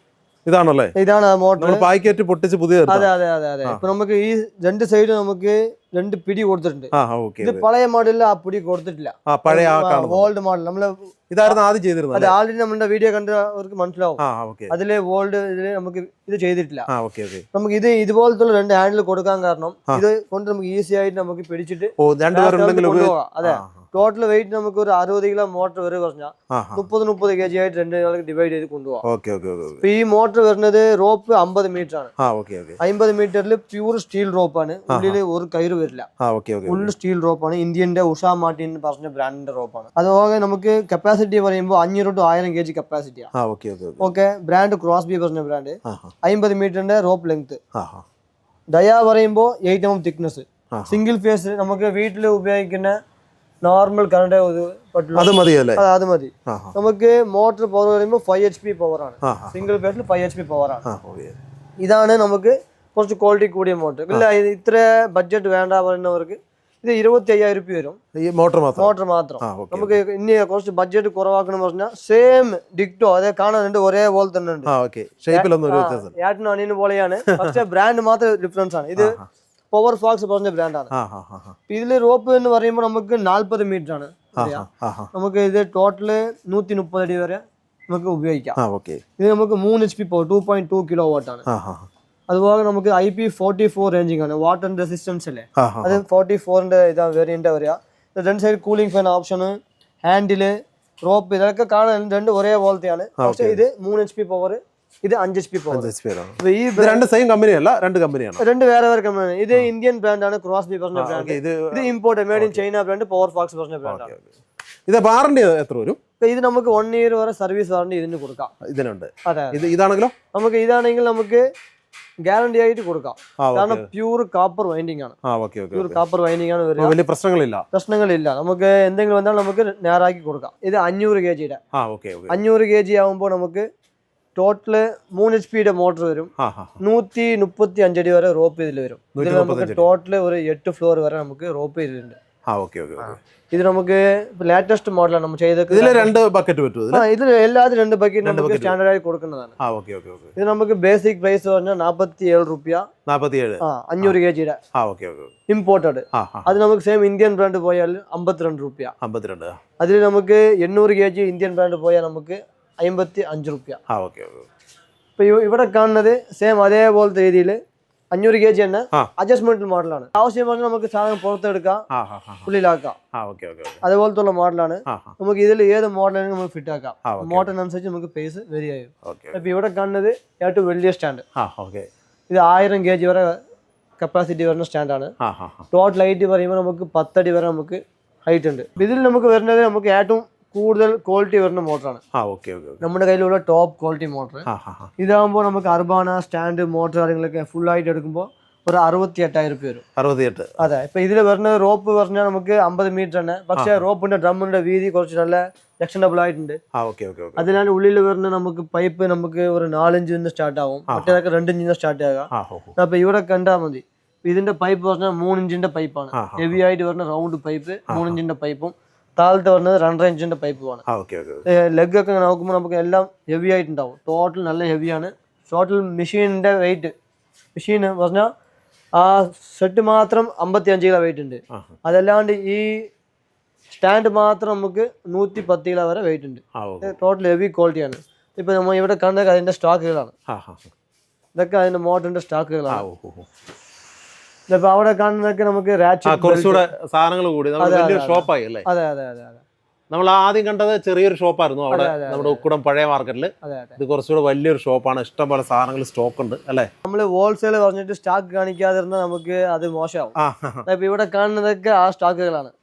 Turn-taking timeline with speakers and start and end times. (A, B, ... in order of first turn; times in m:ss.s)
0:00.4-0:00.9 A
0:01.0-0:01.9 B
0:01.6-0:03.1 A
0:02.9-0:11.6 B
0:06.9-0:07.6 A
0:09.3-0:10.3 A
0:11.3-0:12.3 A
0:12.1-0:16.9 B
0:14.2-0:14.7 A
0:16.9-0:17.4 A
0:17.5-0:29.0 B
0:22.0-0:23.8 A
0:26.5-0:26.8 A
0:29.0-0:29.8 A
0:29.8-0:32.1 B
0:32.2-0:32.8 A
0:32.8-0:36.1 B
0:34.9-0:35.2 A
0:36.2-0:36.9 A
0:36.7-0:43.3 B
0:43.3-0:44.0 A
0:44.0-0:47.6 B
0:45.9-0:46.1 A
0:47.8-0:48.0 A
0:48.7-0:53.0 B
0:50.7-0:51.0 A
0:53.6-1:00.8 B
0:55.1-0:55.8 A
0:56.5-0:56.7 A
0:59.2-0:59.6 A
1:00.9-1:01.4 A
1:01.8-1:08.0 B
1:08.2-1:10.0 A
1:08.8-1:14.7 B
1:14.6-1:16.1 A
1:15.3-1:19.1 B
1:19.0-1:19.3 A
1:19.7-1:20.9 B
1:20.9-1:21.6 A
1:21.7-1:28.6 B
1:24.4-1:25.1 A
1:28.6-1:29.0 A
1:29.2-1:31.4 B
1:31.5-1:31.9 A
1:32.3-1:40.5 B
1:35.6-1:36.0 A
1:41.0-1:47.0 B
1:43.2-1:43.6 A
1:45.7-1:48.4 A
1:48.4-1:54.1 B
1:51.0-1:52.6 A
1:53.8-1:54.3 A
1:54.9-1:56.0 A
1:56.2-1:58.5 B
1:58.6-2:00.1 A
1:59.3-1:59.6 B
2:00.3-2:01.4 B
2:02.3-2:05.2 B
2:03.4-2:03.9 A
2:05.3-2:06.0 A
2:05.7-2:07.0 B
2:06.8-2:07.6 A
2:07.7-2:11.6 B
2:11.7-2:12.4 A
2:12.3-2:13.6 B
2:14.4-2:22.2 B
2:16.4-2:16.7 A
2:19.2-2:19.8 A
2:22.5-2:23.2 A
2:23.5-2:26.1 B
2:25.7-2:27.0 A
2:26.9-2:29.5 B
2:28.2-2:28.8 A
2:29.6-2:30.3 A
2:30.4-2:32.8 B
2:33.1-2:34.1 A
2:33.6-2:34.6 B
2:34.8-2:35.3 A
2:35.5-2:38.9 B
2:36.1-2:36.5 A
2:39.0-2:39.6 A
2:39.8-2:43.8 B
2:43.9-2:44.5 A
2:45.2-2:47.6 B
2:48.1-2:51.8 B
2:51.9-2:52.5 A
2:52.4-2:52.9 B
2:53.1-2:53.8 A
2:53.8-3:01.2 B
2:54.9-2:55.1 A
2:57.1-2:57.5 A
2:59.0-2:59.4 A
3:01.4-3:01.9 A
3:02.3-3:03.4 B
3:04.0-3:05.1 B
3:05.2-3:05.6 A
3:05.7-3:12.0 B
3:12.1-3:12.8 A
3:12.8-3:14.4 B
3:14.5-3:14.9 A
3:15.0-3:19.8 B
3:20.0-3:20.6 A
3:20.6-3:26.6 B
3:26.8-3:27.5 A
3:27.4-3:40.8 B
3:30.9-3:31.2 A
3:32.3-3:32.7 A
3:36.1-3:36.6 A
3:37.9-3:38.2 A
3:40.9-3:41.4 A
3:41.5-3:46.9 B
3:47.6-3:48.3 B
3:49.0-3:52.9 B
3:53.7-4:00.1 B
3:56.6-3:56.9 A
4:00.3-4:00.7 A
4:01.4-4:02.8 B
4:02.7-4:03.3 A
4:04.5-4:06.6 B
4:06.1-4:08.6 A
4:07.6-4:09.4 B
4:09.9-4:16.7 A
4:11.7-4:12.4 B
4:13.4-4:13.8 B
4:16.8-4:20.1 B
4:20.2-4:20.6 A
4:20.6-4:22.5 B